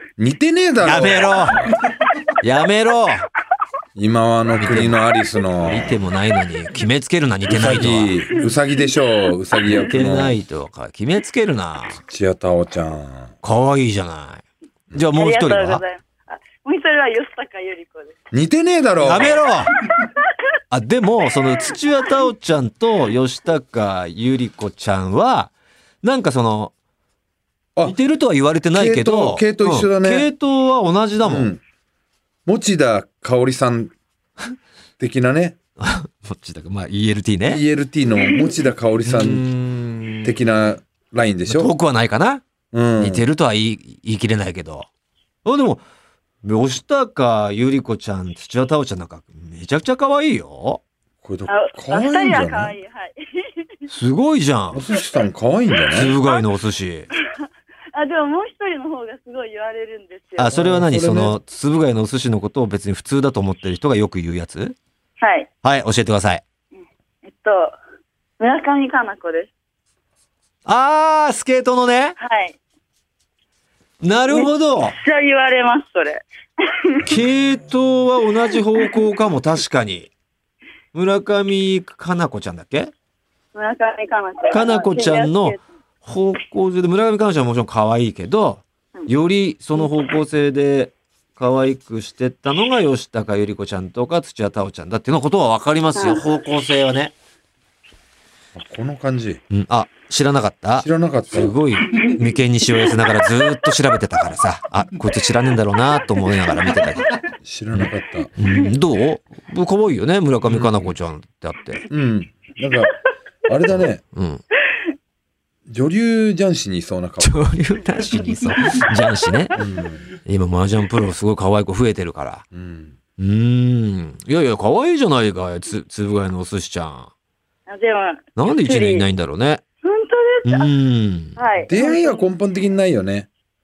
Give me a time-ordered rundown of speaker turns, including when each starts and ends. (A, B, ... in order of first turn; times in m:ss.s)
0:00.2-0:01.8 A
0:00.8-0:01.6 B
0:02.4-0:03.3 B
0:04.0-0:05.9 A
0:04.6-0:05.0 B
0:05.6-0:08.2 B
0:07.5-0:10.4 A
0:09.9-0:12.0 B
0:12.0-0:13.3 A
0:13.4-0:15.8 B
0:15.2-0:18.2 C
0:18.3-0:19.5 A
0:19.0-0:19.7 B
0:20.7-0:26.7 B
0:27.8-0:31.5 B
0:28.7-0:30.3 A
0:31.2-0:31.6 A
0:32.5-0:33.9 A
0:35.0-0:35.6 A
0:35.8-0:37.6 B
0:37.5-0:39.5 A
0:39.0-0:40.4 B
0:40.2-0:41.7 A
0:41.5-0:42.4 B
0:42.7-0:43.3 A
0:43.0-0:44.9 B
0:45.4-0:45.8 B
0:46.4-0:50.8 B
0:51.2-0:52.8 A
0:51.5-0:53.6 C
0:53.9-0:54.8 B
0:54.7-0:56.2 A
0:55.9-0:57.1 B
0:56.0-0:56.4 C
0:57.9-1:00.5 C
1:00.4-1:04.8 B
1:00.5-1:01.4 A
1:05.2-1:05.5 C
1:05.6-1:06.4 B
1:07.2-1:07.8 C
1:08.4-1:09.5 C
1:10.6-1:12.2 B
1:12.2-1:12.6 C
1:14.0-1:15.0 B
1:14.3-1:17.1 C
1:17.1-1:20.1 B
1:20.9-1:22.9 B
1:23.5-1:25.6 C
1:24.5-1:37.1 B
1:36.0-1:36.2 C
1:38.6-1:39.4 A
1:39.5-1:47.1 B
1:40.8-1:41.6 A
1:41.9-1:42.2 C
1:47.4-1:48.3 A
1:47.8-1:51.8 B
1:50.4-1:51.0 A
1:51.9-1:53.0 A
1:53.5-1:54.0 A
1:53.8-1:54.4 B
1:55.7-1:57.6 A
1:57.2-1:59.6 B
1:59.5-2:00.1 A
2:00.2-2:02.4 B
2:02.5-2:03.0 A
2:03.2-2:07.1 B
2:07.7-2:09.1 C
2:08.4-2:09.6 B
2:09.8-2:10.7 C
2:10.4-2:11.4 B
2:11.4-2:12.3 C
2:11.7-2:13.3 A